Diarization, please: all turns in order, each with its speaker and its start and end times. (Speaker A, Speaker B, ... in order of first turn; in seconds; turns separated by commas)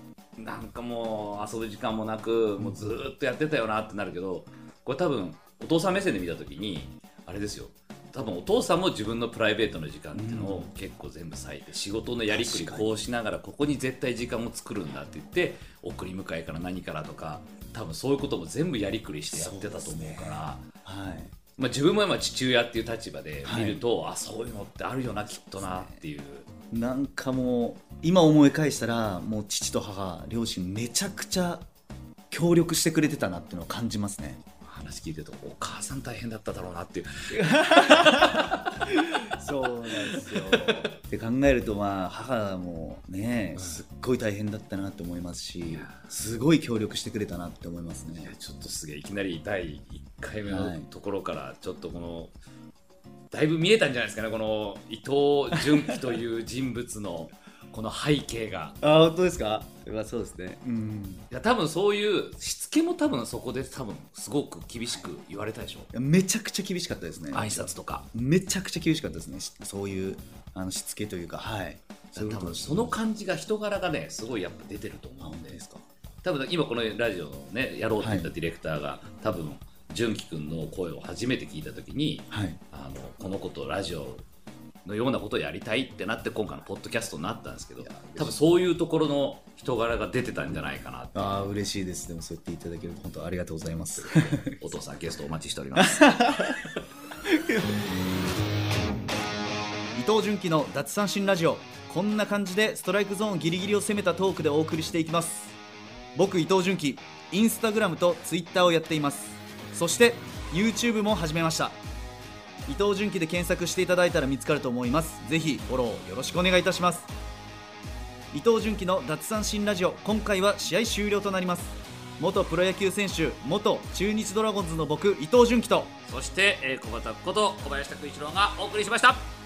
Speaker A: 0.4-20.6, Speaker B: 10.1-10.7, Speaker B: 12.3-13.1, Speaker B: 19.3-21.3, Speaker A: 21.6-26.5, Speaker B: 23.4-23.8, Speaker B: 25.3-26.0, Speaker B: 26.7-31.6, Speaker B: 32.3-34.4, Speaker A: 34.6-38.8, Speaker B: 37.3-48.3, Speaker A: 40.0-40.9, Speaker A: 43.5-43.8, Speaker A: 45.7-46.0, Speaker A: 48.2-52.3, Speaker B: 50.5-50.9, Speaker A: 53.3-58.8, Speaker B: 55.5-56.0, Speaker B: 58.8-61.2, Speaker A: 61.3-65.9, Speaker B: 65.9-72.9, Speaker A: 67.3-68.1, Speaker A: 72.1-75.6, Speaker B: 75.2-75.8, Speaker A: 76.2-84.2, Speaker B: 78.0-78.3, Speaker B: 82.3-82.6, Speaker A: 84.8-91.5, Speaker B: 87.8-88.5, Speaker B: 91.1-94.8, Speaker A: 94.0-96.4, Speaker B: 95.8-96.6, Speaker B: 97.2-97.7, Speaker B: 99.9-105.5, Speaker B: 106.2-111.8, Speaker B: 112.7-117.1, Speaker B: 118.3-125.9, Speaker A: 126.0-129.3